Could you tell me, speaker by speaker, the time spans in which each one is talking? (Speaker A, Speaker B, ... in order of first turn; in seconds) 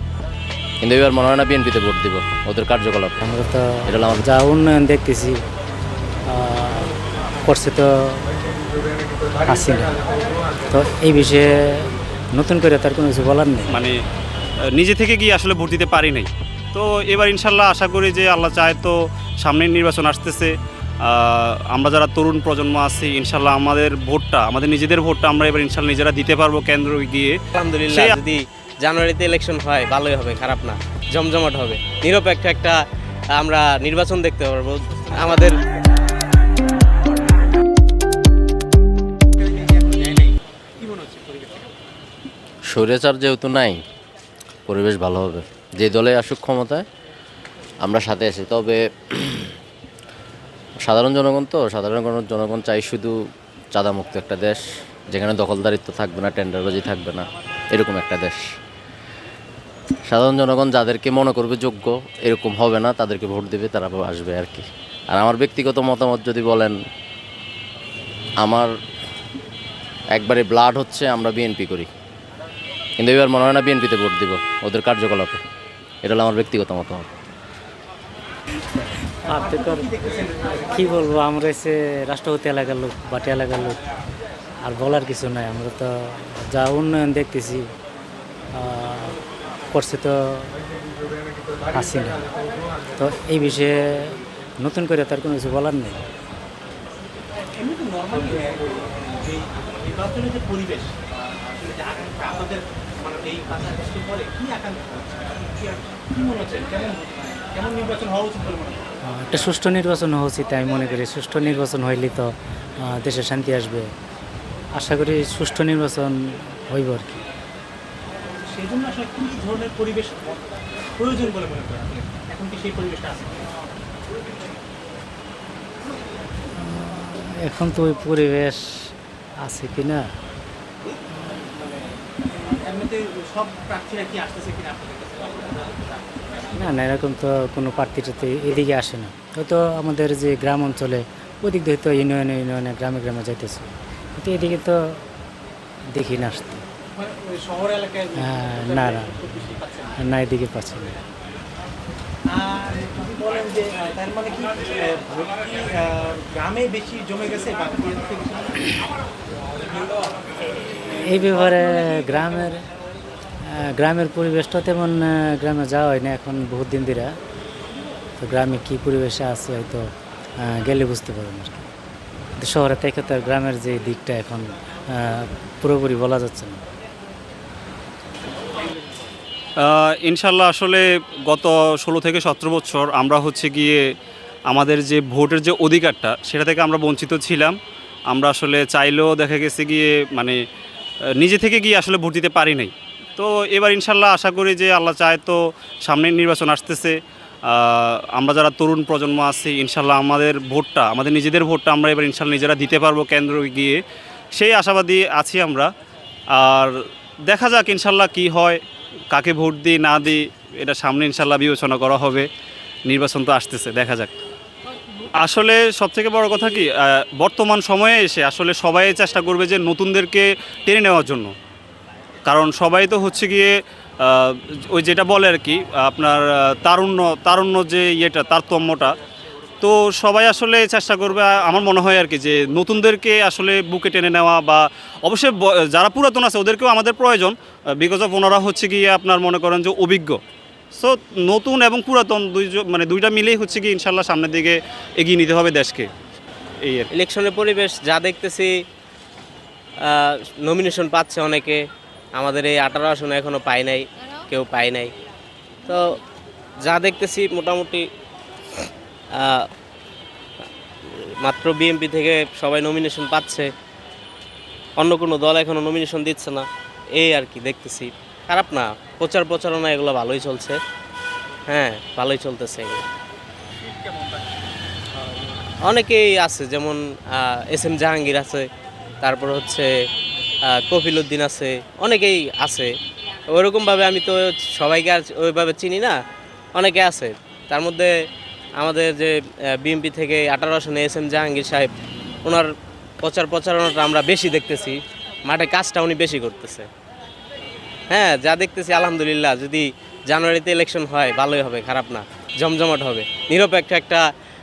Speaker A: 0.8-3.2, 3.9-4.2, 42.7-43.8, 44.7-46.9, 47.8-49.5, 50.8-53.1, 53.7-58.4, 60.1-66.8, 68.4-68.7, 70.1-71.9, 73.0-75.4, 76.0-77.1
Speaker B: 3.2-5.4, 6.3-6.9, 7.5-8.2, 9.4-9.9, 10.7-13.8, 78.7-79.9, 80.7-83.8, 84.6-87.7, 88.5-89.2, 89.7-90.5, 91.7-92.2, 93.0-96.0, 109.1-112.3, 112.8-113.9, 114.8-116.2, 116.7-117.2, 126.6-128.9, 129.4-130.1, 136.6-144.8, 145.9-146.6, 148.2-149.2, 150.0-151.0, 160.8-162.6, 163.6-167.1, 168.2-169.8, 170.4-171.7, 172.4-176.6
Speaker C: 13.7-14.0, 14.8-27.4, 27.9-28.2, 179.6-183.8, 184.5-187.6, 188.1-190.4, 191.2-203.8, 204.3-205.7, 206.3-206.7, 207.3-212.3, 212.9-214.2, 215.2-221.3, 222.2-228.9, 229.6-240.2, 240.7-245.9, 246.6-246.9
Speaker D: 27.5-32.8, 33.4-35.6, 246.9-248.5, 249.8-251.6, 252.2-254.9, 255.7-256.0, 256.6-257.8, 259.1-259.4, 261.2-263.5, 264.8-266.4, 267.0-270.6, 271.5-272.8, 275.6-278.5, 279.0-279.7, 280.5-282.7, 283.3-285.9, 286.6-287.9, 288.6-291.7, 293.0-296.7, 297.9-304.1
Speaker E: 39.4-41.7, 79.3-80.8, 97.5-100.9, 101.5-108.8, 118.5-120.4, 121.0-123.4, 132.4-136.5, 146.9-149.9, 152.3-158.8